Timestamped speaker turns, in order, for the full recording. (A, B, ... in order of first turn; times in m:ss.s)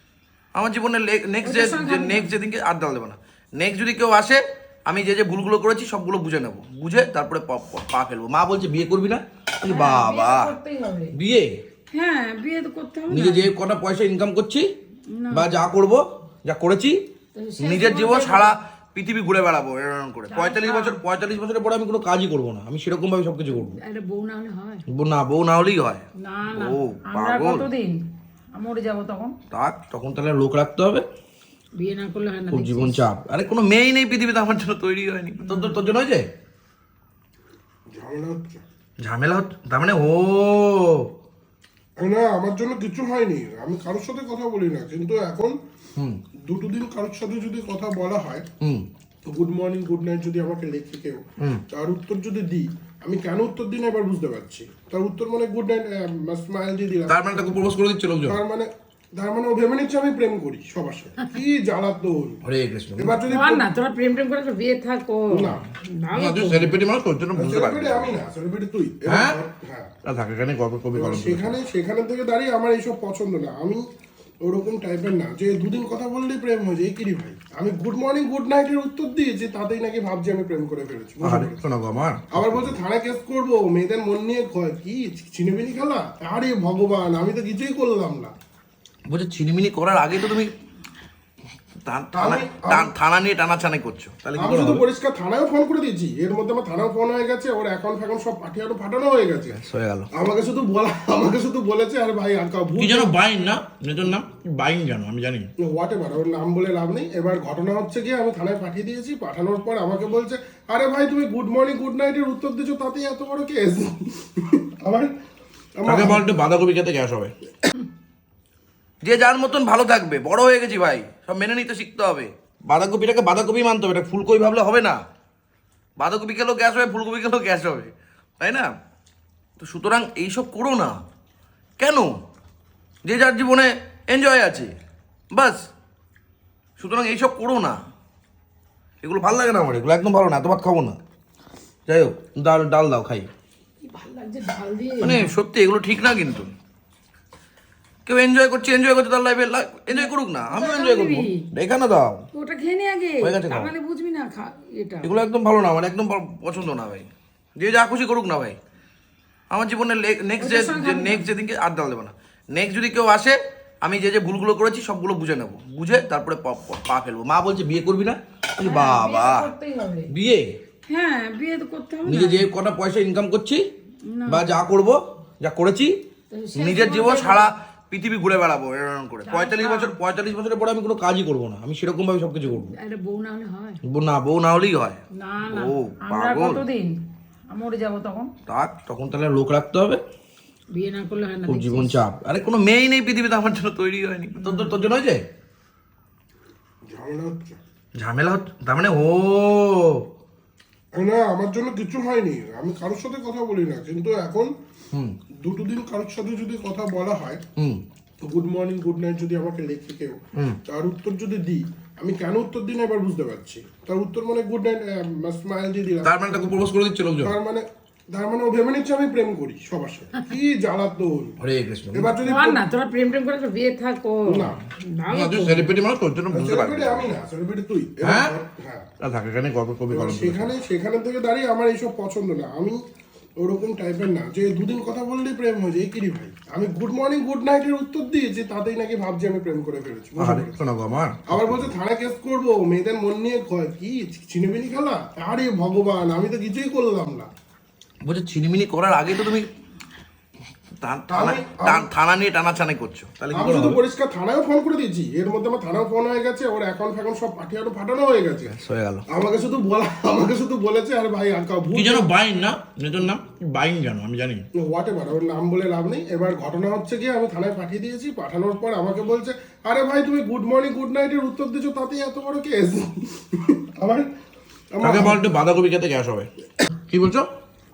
0:00.5-0:10.5 A
0:01.4-0:02.3 B
0:09.6-0:11.1 B
0:11.1-0:11.5 A
0:11.9-0:13.5 B
0:13.1-0:14.7 A
0:15.1-0:15.6 B
0:15.3-0:17.0 A
0:17.4-0:18.5 B
0:17.6-0:23.8 A
0:20.3-0:21.0 B
0:23.5-0:24.8 B
0:24.9-0:27.6 A
0:26.2-0:28.0 B
0:28.5-0:29.3 B
0:29.5-0:31.0 A
0:31.8-0:33.0 B
0:32.5-0:36.3 A
0:35.5-0:35.8 B
0:37.9-0:38.6 C
0:39.0-0:41.1 A
0:42.0-0:45.5 C
0:46.4-0:48.4 C
0:48.6-0:48.8 A
0:49.2-0:57.2 C
0:57.1-0:58.4 A
0:58.3-1:02.4 C
1:02.4-1:03.2 A
1:03.0-1:03.6 C
1:03.3-1:06.8 B
1:05.3-1:05.6 C
1:06.1-1:08.1 A
1:07.3-1:09.9 C
1:09.1-1:09.4 A
1:10.0-1:11.6 A
1:10.9-1:13.8 C
1:14.4-1:21.6 C
1:21.2-1:22.8 A
1:22.3-1:28.3 C
1:29.1-1:30.5 A
1:31.8-1:34.8 A
1:32.1-1:32.9 C
1:34.4-1:39.6 C
1:39.5-1:40.1 A
1:40.1-1:43.1 C
1:42.8-1:45.5 A
1:45.6-1:55.1 C
1:55.8-1:56.2 C
1:55.8-1:57.3 A
1:59.0-2:05.0 A
2:06.0-2:08.7 A
2:09.6-2:11.0 A
2:11.8-2:12.1 A
2:13.0-2:14.7 A
2:15.3-2:15.6 A
2:16.8-2:17.8 A
2:19.0-2:21.0 A
2:21.9-2:23.3 A
2:23.8-2:25.3 B
2:25.0-2:26.5 A
2:28.0-2:32.2 A
2:29.9-2:31.4 B
2:32.3-2:35.1 B
2:33.2-2:33.7 A
2:35.0-2:37.1 A
2:37.6-2:38.6 A
2:39.5-2:49.5 A
2:40.4-2:41.3 B
2:48.6-2:50.1 B
2:50.1-2:50.4 A
2:50.9-2:52.4 B
2:52.0-2:53.6 A
2:54.1-2:54.5 B
2:54.3-2:55.9 A
2:56.3-2:57.5 B
2:56.5-3:02.7 A
2:59.2-3:00.0 B
3:02.5-3:03.8 B
3:03.8-3:06.6 A
3:05.2-3:07.0 B
3:07.5-3:08.3 B
3:08.4-3:10.0 A
3:10.7-3:12.0 B
3:11.5-3:15.2 A
3:14.4-3:14.7 B
3:16.9-3:17.6 C
3:18.0-3:20.0 A
3:20.9-3:24.5 C
3:25.4-3:27.4 C
3:28.2-3:36.2 C
3:36.0-3:37.3 A
3:37.2-3:41.3 C
3:41.4-3:42.1 A
3:41.9-3:42.6 C
3:42.2-3:45.7 B
3:44.3-3:44.6 C
3:45.1-3:47.1 A
3:46.3-3:48.9 C
3:48.0-3:48.4 A
3:49.0-3:50.5 A
3:49.9-3:52.8 C
3:53.4-4:00.5 C
4:00.2-4:01.7 A
4:01.3-4:07.3 C
4:08.0-4:09.5 A
4:10.8-4:13.8 A
4:11.1-4:11.9 C
4:13.3-4:18.5 C
4:18.4-4:19.0 A
4:19.1-4:22.1 C
4:21.7-4:24.4 A
4:24.5-4:34.1 C
4:34.7-4:35.2 C
4:34.8-4:36.3 A
4:36.9-4:37.3 A